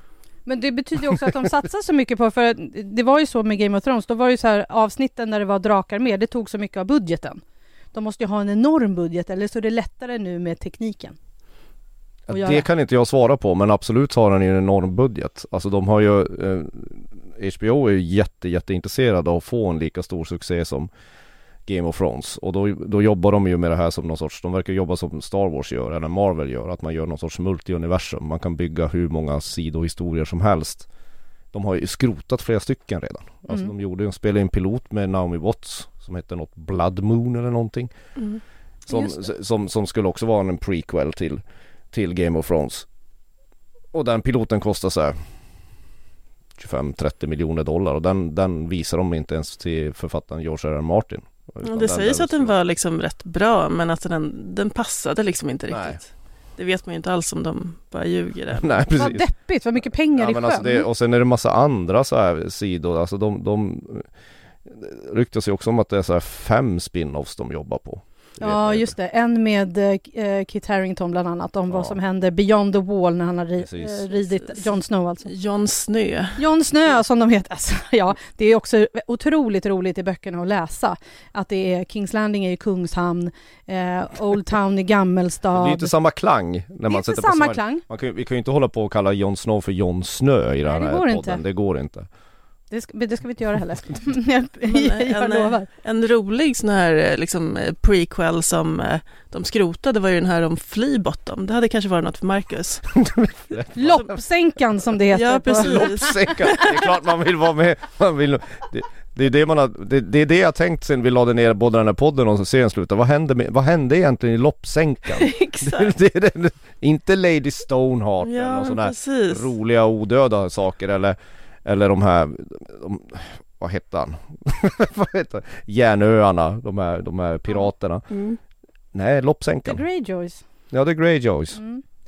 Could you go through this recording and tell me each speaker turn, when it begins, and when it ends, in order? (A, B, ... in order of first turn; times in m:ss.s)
0:00.4-0:07.4 A
0:07.9-0:11.2 A
0:12.3-0:20.9 B
0:12.3-0:12.7 A
0:21.6-0:30.9 B
0:31.5-0:37.9 B
0:38.9-0:42.9 B
0:38.9-0:39.2 A
0:43.9-0:45.2 B
0:46.6-0:52.5 B
0:51.6-0:58.8 C
0:55.7-0:56.0 B
0:58.6-0:59.3 B
0:58.9-1:00.9 A
1:00.1-1:04.1 B
1:04.6-1:08.9 B
1:08.4-1:15.3 A
1:11.7-1:12.0 B
1:13.6-1:14.0 B
1:15.3-1:16.4 C
1:16.4-1:25.9 A
1:25.5-1:32.1 B
1:26.9-1:27.8 A
1:30.6-1:31.4 A
1:32.7-1:35.7 A
1:34.6-1:42.9 C
1:42.9-1:44.1 B
1:43.8-1:46.3 A
1:45.1-1:46.8 C
1:45.6-2:08.0 B
1:58.2-1:59.5 C
2:08.1-2:08.4 C
2:08.9-2:09.8 B
2:09.6-2:10.4 A
2:10.7-2:11.6 B
2:11.5-2:11.8 A